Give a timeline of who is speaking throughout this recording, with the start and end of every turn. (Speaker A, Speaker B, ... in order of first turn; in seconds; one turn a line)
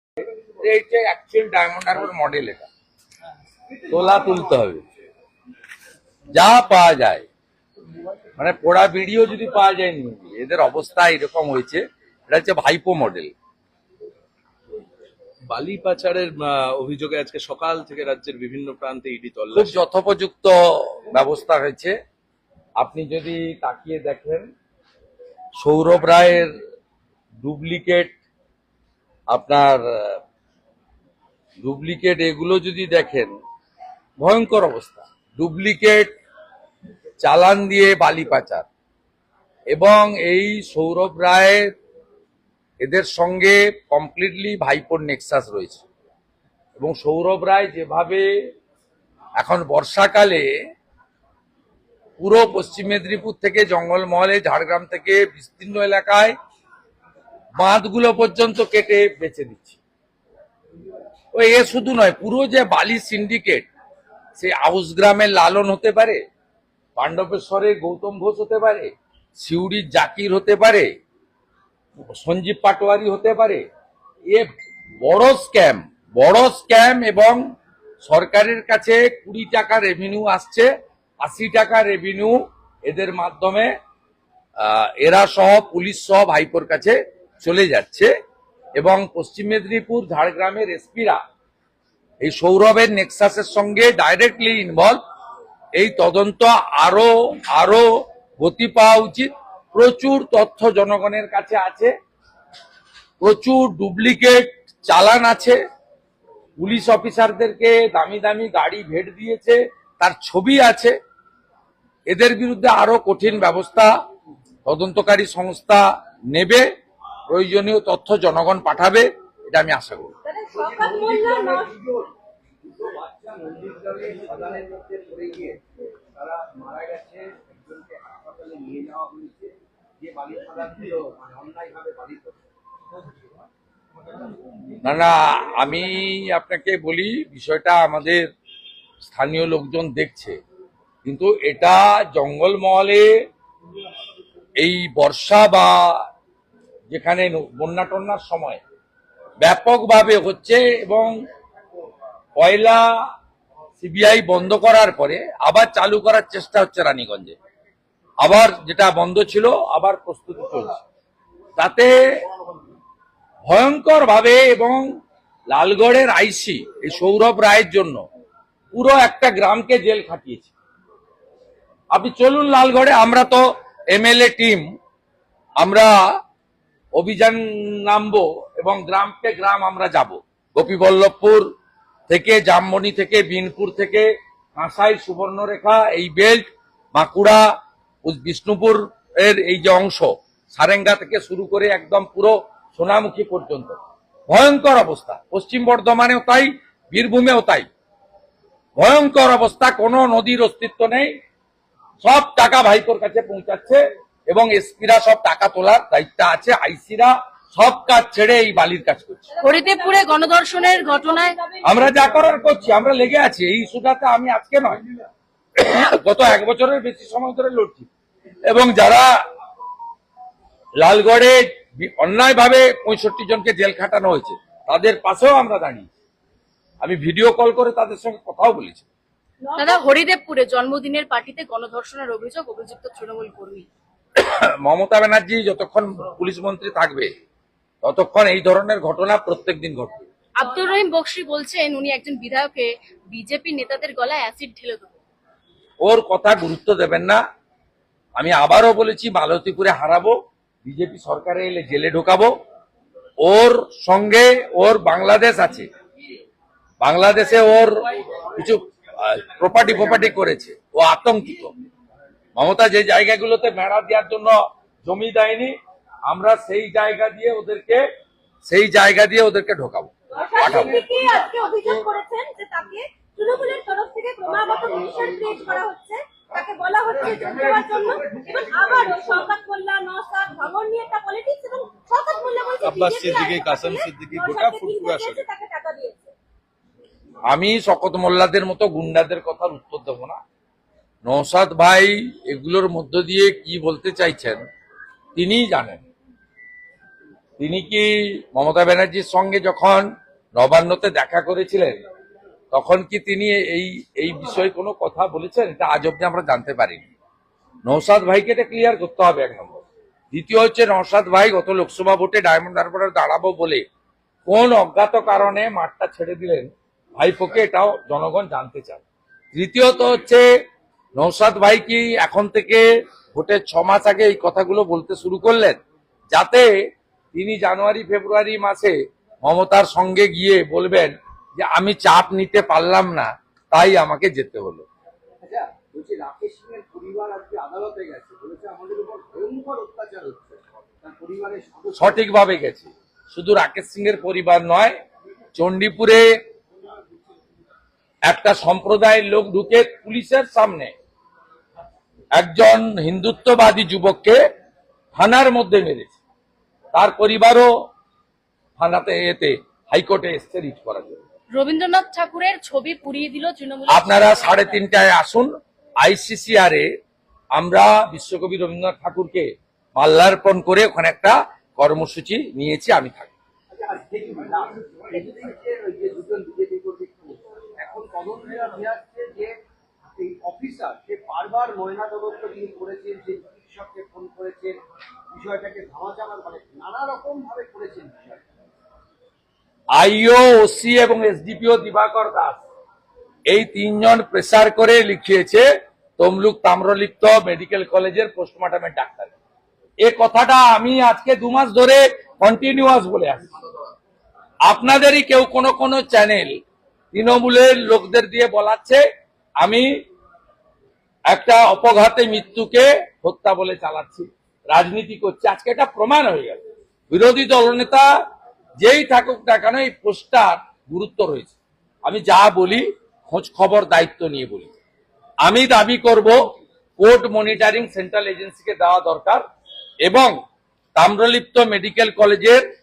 Speaker A: 0.6-2.6
Speaker A: 3.9-4.8
Speaker A: 6.3-7.2
Speaker A: 8.4-13.3
Speaker B: 15.4-19.8
Speaker A: 19.5-21.9
Speaker A: 22.8-24.5
Speaker A: 25.6-26.5
Speaker A: 27.4-28.2
Speaker A: 29.3-30.2
Speaker A: 31.6-33.3
Speaker A: 34.2-36.1
Speaker A: 37.2-38.6
Speaker A: 39.7-41.7
Speaker A: 42.8-45.8
Speaker A: 46.8-48.3
Speaker A: 49.4-50.5
Speaker A: 52.2-56.3
Speaker A: 57.6-59.8
Speaker A: 61.3-63.7
Speaker A: 64.3-66.2
Speaker A: 67.0-70.9
Speaker A: 72.1-73.6
Speaker A: 75.0-77.4
Speaker A: 78.0-80.7
Speaker A: 81.2-83.7
Speaker A: 84.6-88.1
Speaker A: 88.8-91.2
Speaker A: 92.2-95.0
Speaker A: 95.8-97.9
Speaker A: 98.4-101.9
Speaker A: 103.2-105.6
Speaker A: 106.6-111.0
Speaker A: 112.1-113.9
Speaker A: 114.7-116.7
Speaker A: 117.3-120.1
Speaker C: 120.2-121.7
Speaker D: 120.5-122.1
Speaker D: 122.6-132.5
Speaker A: 134.8-138.3
Speaker A: 139.0-140.4
Speaker A: 141.0-143.1
Speaker A: 144.6-146.0
Speaker A: 146.9-148.6
Speaker A: 149.4-151.1
Speaker A: 152.3-152.9
Speaker A: 153.8-157.3
Speaker A: 158.2-160.8
Speaker A: 161.6-161.9
Speaker A: 163.5-164.8
Speaker A: 165.5-168.0
Speaker A: 168.7-170.5
Speaker A: 171.9-174.7
Speaker A: 175.6-175.9
Speaker A: 176.9-181.4
Speaker A: 182.1-187.4
Speaker A: 188.0-193.8
Speaker A: 194.3-197.7
Speaker A: 198.8-201.1
Speaker A: 202.0-209.3
Speaker E: 209.4-211.3
Speaker C: 209.5-210.1
Speaker C: 210.7-211.3
Speaker A: 211.6-214.8
Speaker A: 215.6-217.9
Speaker A: 218.4-219.1
Speaker A: 220.8-225.9
Speaker A: 226.8-228.8
Speaker E: 229.5-233.7
Speaker A: 234.2-237.1
Speaker A: 237.8-240.1
Speaker E: 240.4-244.9
Speaker A: 245.8-247.2
Speaker A: 248.2-252.3
Speaker A: 253.2-255.7
Speaker A: 256.8-261.5
Speaker A: 262.4-265.5
Speaker A: 266.1-267.8
Speaker A: 268.4-270.9
Speaker C: 270.1-286.1
Speaker B: 282.6-285.3
Speaker A: 287.3-290.2
Speaker A: 291.0-294.4
Speaker A: 295.1-295.8
Speaker A: 297.4-301.8
Speaker A: 302.5-306.9
Speaker A: 307.6-313.6
Speaker A: 314.2-318.8
Speaker A: 319.3-320.2
Speaker A: 321.0-325.6
Speaker A: 326.1-326.5
Speaker A: 327.1-334.6
Speaker D: 335.2-342.1
Speaker A: 341.7-344.7
Speaker A: 345.4-346.1
Speaker A: 348.1-350.7
Speaker A: 352.1-354.2
Speaker A: 354.9-356.0
Speaker A: 356.7-357.5
Speaker A: 358.6-361.0
Speaker E: 361.3-364.6
Speaker A: 363.7-365.3
Speaker A: 365.8-366.7
Speaker A: 367.4-373.1
Speaker D: 373.5-379.4
Speaker D: 379.9-384.6
Speaker D: 385.1-388.2
Speaker A: 389.7-392.4
Speaker A: 393.3-395.4
Speaker A: 396.0-399.1
Speaker A: 399.8-403.2
Speaker A: 404.4-406.4
Speaker A: 406.9-408.8
Speaker A: 409.4-409.7
Speaker A: 411.1-417.9
Speaker A: 418.6-424.5
Speaker A: 425.2-426.2
Speaker A: 426.8-429.2
Speaker A: 429.8-430.2
Speaker A: 430.8-432.4